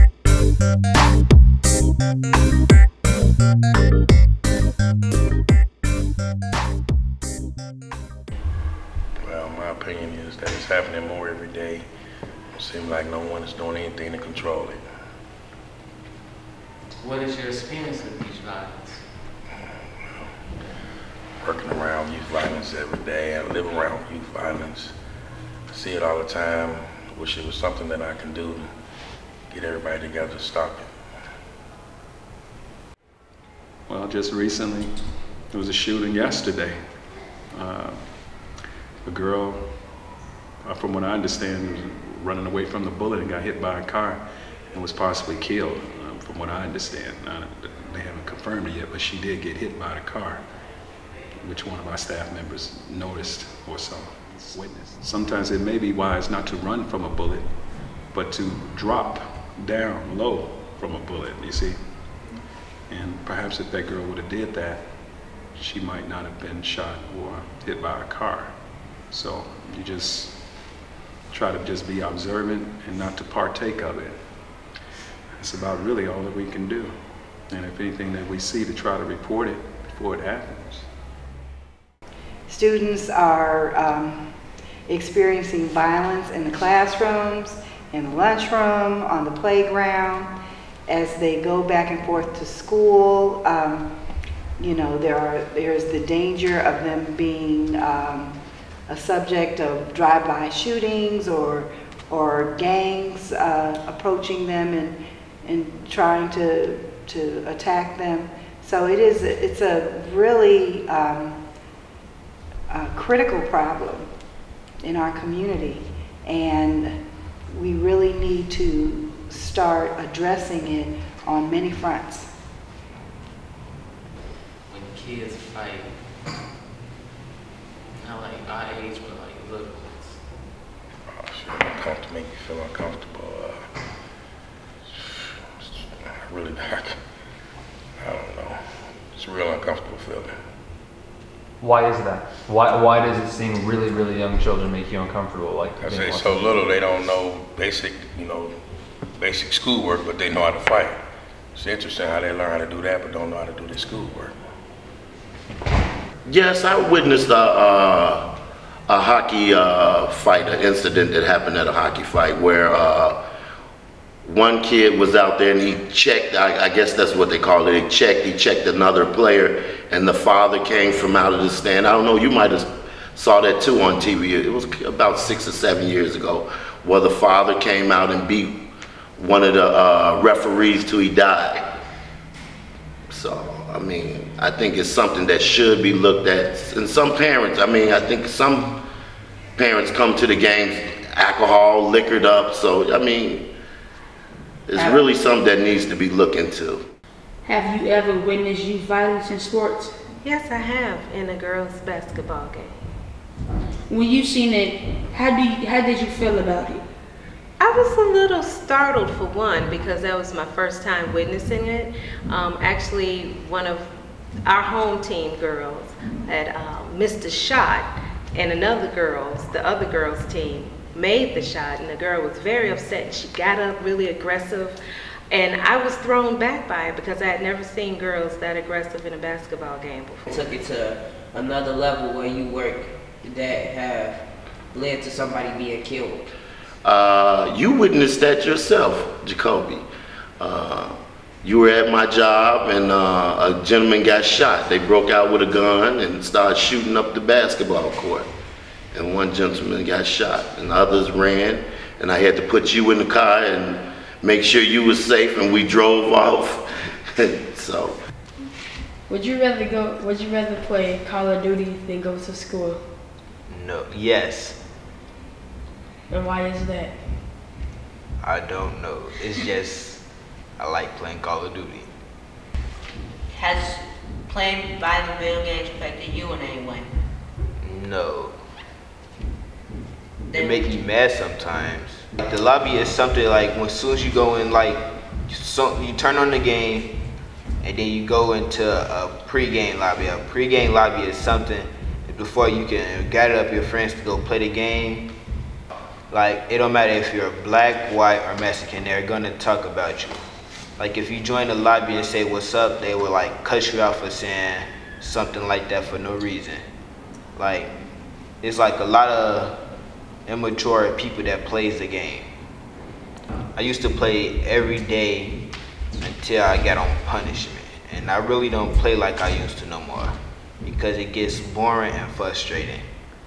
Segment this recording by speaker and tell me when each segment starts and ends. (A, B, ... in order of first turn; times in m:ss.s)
0:09.2-0:11.9 A
0:12.5-0:14.8 A
0:17.0-0:19.0 B
0:21.4-0:24.9 A
0:25.7-0:28.7 A
0:29.5-0:30.9 A
0:33.9-0:34.9 C
0:35.5-0:36.8 C
0:37.5-0:38.4 C
0:39.0-0:39.7 C
0:40.6-0:44.2 C
0:44.7-0:50.4 C
0:51.4-0:57.4 C
0:58.1-1:01.8 C
1:02.9-1:05.0 C
1:05.5-1:08.6 C
1:09.1-1:10.6 C
1:11.3-1:14.4 C
1:15.4-1:16.9 C
1:17.5-1:20.9 C
1:22.5-1:24.3 D
1:24.9-1:30.3 D
1:30.9-1:33.9 D
1:34.6-1:38.4 D
1:38.9-1:51.4 D
1:52.7-1:54.1 D
1:54.8-1:57.0 D
1:57.5-2:02.3 D
2:04.7-2:05.9 B
2:08.0-2:10.2 B
2:11.1-2:13.6 A
2:16.3-2:17.0 A
2:18.0-2:18.6 A
2:19.2-2:20.4 A
2:21.6-2:26.6 E
2:25.8-2:28.5 A
2:29.2-2:31.0 A
2:31.6-2:34.3 A
2:36.2-2:38.2 F
2:38.9-2:43.2 F
2:44.2-2:58.6 F
2:59.2-3:01.6 F
3:03.1-3:08.8 F
3:09.6-3:13.5 F
3:14.7-3:16.8 F
3:17.4-3:19.9 G
3:20.2-3:22.8 H
3:23.9-3:26.8 G
3:27.6-3:33.9 H
3:34.4-3:44.8 H
3:45.3-3:50.2 H
3:50.3-3:56.3 I
3:56.8-3:59.8 F
4:00.4-4:08.3 F
4:08.9-4:16.6 F
4:17.2-4:17.9 F
4:19.1-4:22.8 G
4:23.5-4:24.6 J
4:26.1-4:27.0 G
4:28.2-4:30.0 J
4:30.6-4:31.9 J
4:33.3-4:36.9 K
4:37.6-4:38.3 J
4:40.3-4:46.9 J
4:47.6-4:55.1 J
4:56.1-5:00.2 J
5:00.8-5:06.6 J
5:07.4-5:07.7 J
5:08.4-5:09.6 J
5:10.3-5:12.3 J
5:13.6-5:15.4 J
5:16.0-5:22.8 J